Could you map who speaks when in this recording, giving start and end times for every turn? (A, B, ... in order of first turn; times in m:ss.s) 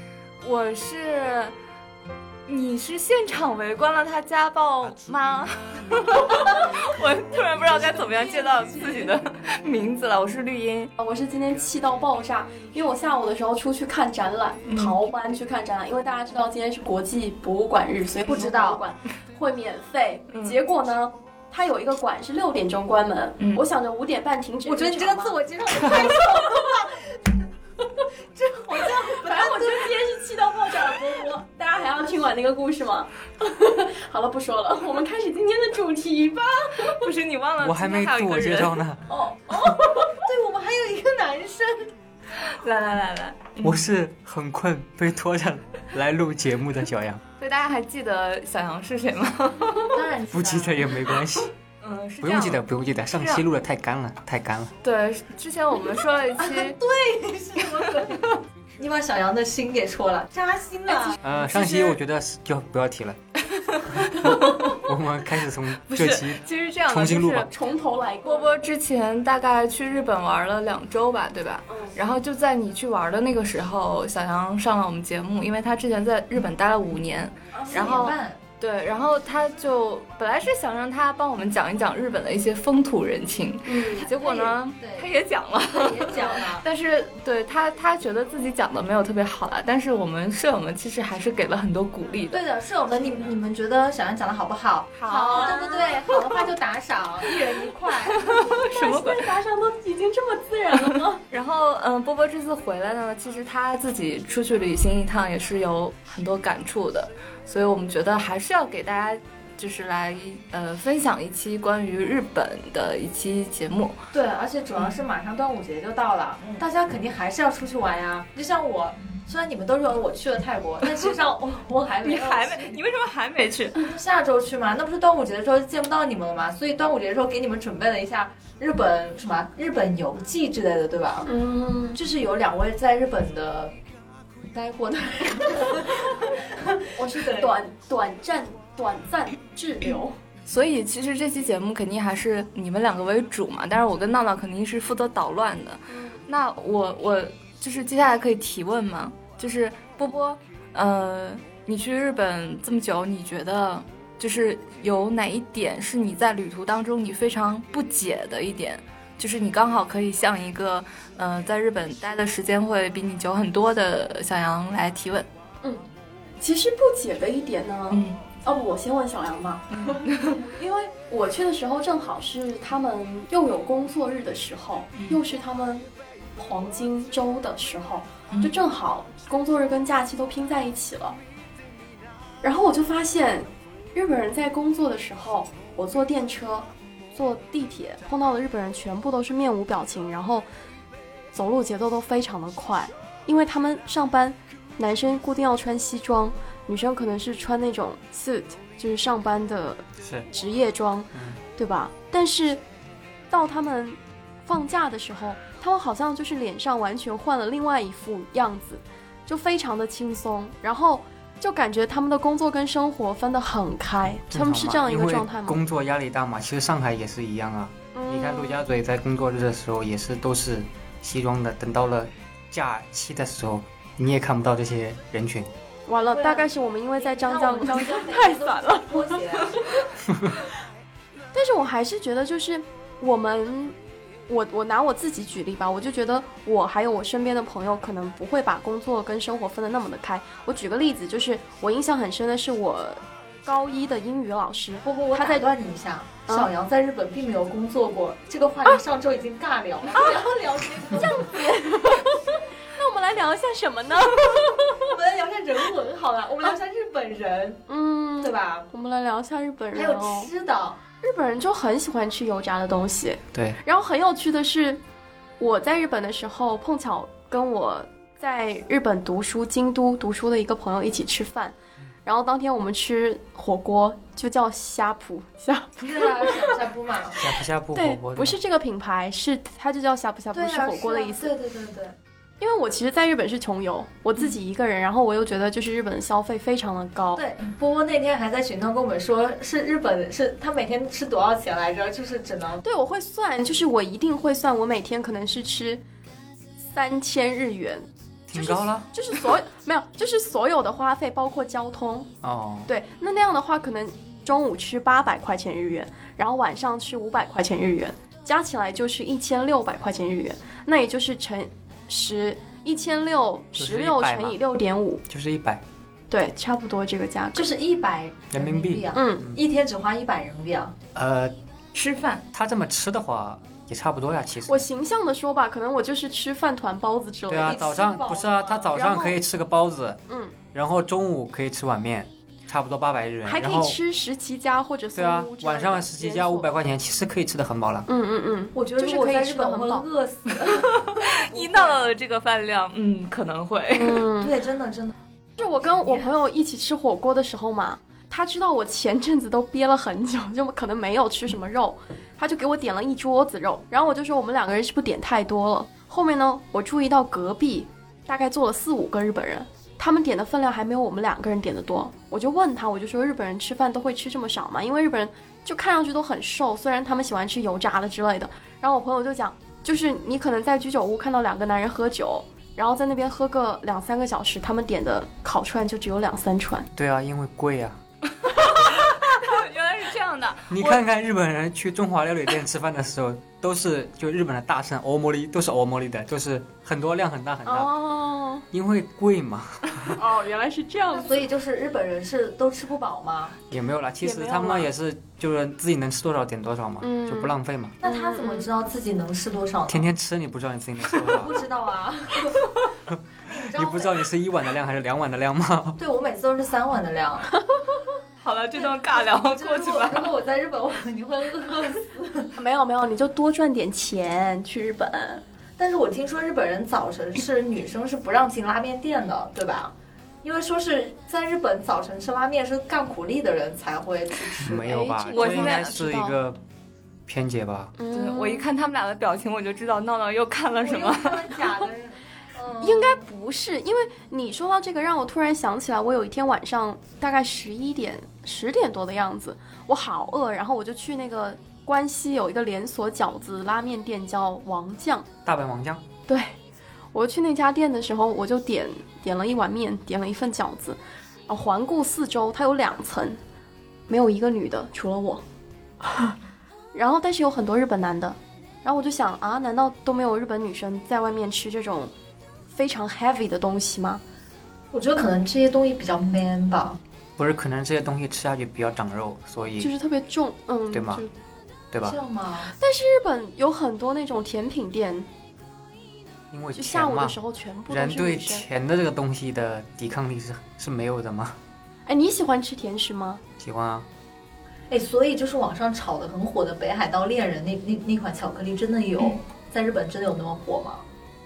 0:00.4-0:01.5 A
0:02.5-0:10.9 A
0:06.3-0:06.7 B
0:07.8-0:09.0 C
0:11.0-0:26.7 C
0:14.7-0:15.0 A
0:18.2-0:18.8 B
0:20.3-0:20.6 A
0:24.6-0:27.1 B
0:28.3-0:29.9 B
0:28.7-0:37.0 C
0:30.8-0:31.3 B
0:36.8-0:38.8 A
0:37.6-0:39.0 D
0:39.1-0:41.9 B
0:39.5-0:40.1 C
0:42.4-0:43.8 A
0:43.6-0:47.2 D
0:47.4-0:50.0 A
0:49.9-0:51.0 B
0:50.3-0:51.5 D
0:51.8-0:53.4 A
0:52.2-0:54.7 D
0:54.8-0:56.8 A
0:56.4-1:02.0 B
1:01.2-1:03.2 D
1:03.6-1:04.8 A
1:03.9-1:07.5 D
1:05.9-1:07.5 A
1:07.5-1:08.6 C
1:08.2-1:32.4 A
1:11.7-1:11.9 C
1:17.5-1:18.1 C
1:17.7-1:18.4 B
1:23.6-1:24.1 C
1:23.9-1:25.1 B
1:25.6-1:26.6 B
1:32.3-1:38.4 B
1:35.0-1:36.5 A
1:35.2-1:35.8 C
1:37.3-1:39.3 A
1:38.6-1:41.2 C
1:40.8-1:54.0 A
1:54.1-2:02.8 B
2:02.0-2:03.8 A
2:03.7-2:11.3 B
2:11.2-2:12.0 C
2:11.9-2:13.7 B
2:14.4-2:17.5 B
2:17.1-2:20.2 C
2:20.5-2:45.3 A
2:25.9-2:26.2 C
2:46.4-3:01.2 C
2:47.9-2:48.2 A
2:49.7-2:50.4 A
3:02.4-3:10.5 C
3:11.3-3:22.6 C
3:20.0-3:20.3 D
3:21.1-3:21.4 D
3:23.3-3:35.6 C
3:34.3-3:45.5 D
3:37.9-3:38.6 C
3:45.9-3:49.2 C
3:46.1-3:49.6 B
3:51.3-3:53.8 C
3:54.3-4:05.4 C
4:04.8-4:11.3 B
4:10.9-4:14.8 C
4:14.6-4:17.6 B
4:17.7-4:20.3 C
4:18.2-4:18.7 B
4:19.7-4:20.8 B
4:21.0-4:24.8 C
4:23.3-4:23.6 D
4:25.4-4:36.4 C
4:35.8-4:37.2 B
4:37.1-4:38.4 D
4:37.7-4:41.3 C
4:40.3-4:41.9 B
4:42.4-4:47.2 C
4:47.2-4:52.6 B
4:52.6-4:55.8 C
4:56.6-5:02.1 C
4:58.3-4:58.9 D
5:02.2-5:02.7 D
5:02.7-5:15.0 C
5:13.6-5:14.4 D
5:15.1-5:15.6 D
5:16.1-5:17.5 C
5:17.3-5:20.7 B
5:18.3-5:19.4 D
5:18.9-5:19.2 C
5:20.9-5:21.3 D
5:21.7-5:22.2 A
5:22.3-5:24.7 D
5:24.5-5:27.6 C
5:27.3-5:30.0 D
5:27.4-5:29.1 B
5:30.1-5:30.3 C
5:30.5-5:33.8 D
5:33.2-5:36.5 C
5:34.9-5:37.9 D
5:37.9-5:39.8 C
5:38.5-5:41.9 B
5:40.5-5:44.0 A
5:43.7-5:44.3 C
5:44.2-5:45.9 B
5:45.4-6:16.7 C
6:16.8-6:17.8 D
6:18.3-6:20.8 A
6:20.5-6:27.7 D
6:27.4-6:28.4 C
6:28.5-6:30.0 D
6:29.9-6:31.2 C
6:30.9-6:33.4 B
6:33.5-6:37.8 D
6:34.0-6:34.7 C
6:36.8-6:38.5 C
6:37.8-6:39.9 B
6:39.7-6:41.4 D
6:41.0-6:42.7 B
6:43.3-6:44.0 B
6:43.5-6:45.8 D
6:45.8-6:47.3 B
6:48.2-6:50.1 A
6:48.6-6:52.3 B
6:52.3-6:55.2 C
6:55.6-7:04.8 B
7:04.4-7:06.4 D
7:04.6-7:06.2 C
7:05.1-7:05.8 A
7:07.1-7:07.7 D
7:07.8-7:08.5 C
7:07.9-7:11.4 A
7:10.6-7:13.0 B
7:12.6-7:25.1 C
7:25.2-7:25.8 D
7:26.1-7:26.4 C
7:26.9-7:33.2 C
7:33.9-7:35.2 C
7:35.8-7:36.2 C
7:36.7-7:41.9 C
7:42.5-7:44.0 C
7:44.7-7:46.8 B
7:47.2-7:49.7 D
7:49.6-7:51.1 C
7:50.7-7:51.0 D
7:51.7-7:52.0 D
7:51.8-7:52.5 B
7:52.6-7:55.1 C
7:56.3-7:57.2 D
7:56.5-7:58.4 C
7:57.7-8:01.4 D
8:01.8-8:03.2 C
8:03.4-8:03.9 D
8:04.7-8:10.8 B